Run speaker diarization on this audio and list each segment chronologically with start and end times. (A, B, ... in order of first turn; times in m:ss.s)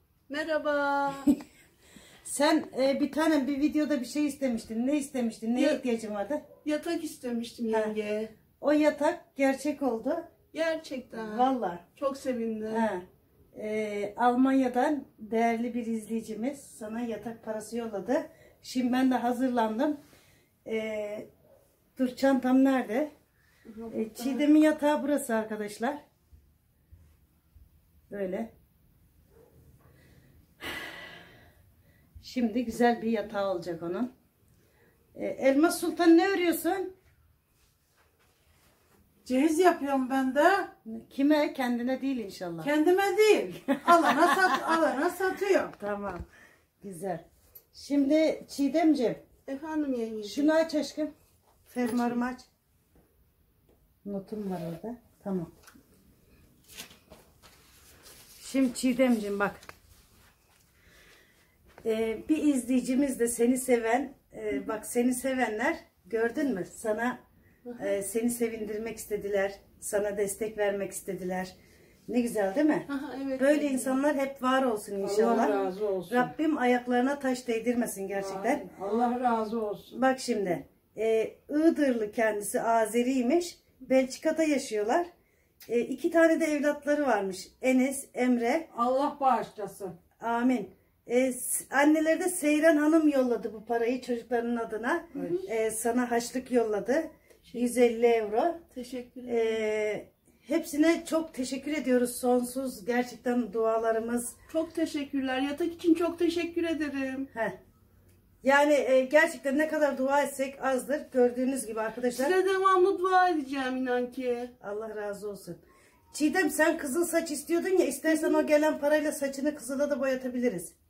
0:00.3-0:01.3 A
0:02.2-0:06.4 B
0:05.5-0:05.8 A
0:06.6-0:08.3 A
0:07.7-0:07.9 B
0:08.6-0:10.3 B
0:10.5-0:12.9 A
0:11.2-0:11.8 B
0:12.7-0:20.0 B
0:20.6-0:21.3 B
0:22.0-0:23.1 B
0:23.7-0:24.4 A
0:23.9-0:26.0 B
0:28.1-0:28.5 B
0:32.2-0:34.1 B
0:35.1-0:36.9 B
0:39.2-0:40.7 C
0:40.8-0:42.7 B
0:42.6-0:45.7 C
0:43.8-0:44.8 B
0:45.8-0:46.2 B
0:46.8-0:49.2 B
0:49.5-0:50.5 A
0:50.2-0:51.1 B
0:51.7-0:52.5 B
0:51.8-0:52.2 A
0:54.0-0:55.5 B
0:58.4-0:59.6 B
1:01.8-1:07.2 B
1:07.6-1:07.9 A
1:07.8-1:11.5 B
1:12.1-1:12.9 B
1:12.9-1:14.0 A
1:13.4-1:18.6 B
1:15.0-1:16.3 C
1:18.1-1:20.0 C
1:19.9-1:25.1 B
1:25.7-1:28.7 B
1:28.7-1:29.9 C
1:30.2-1:38.6 B
1:35.1-1:35.4 A
1:38.7-1:39.4 A
1:39.2-1:44.3 B
1:44.5-1:47.3 A
1:47.3-1:47.6 B
1:48.4-1:52.3 B
1:52.1-1:54.5 A
1:54.6-1:55.6 B
1:56.1-2:00.7 B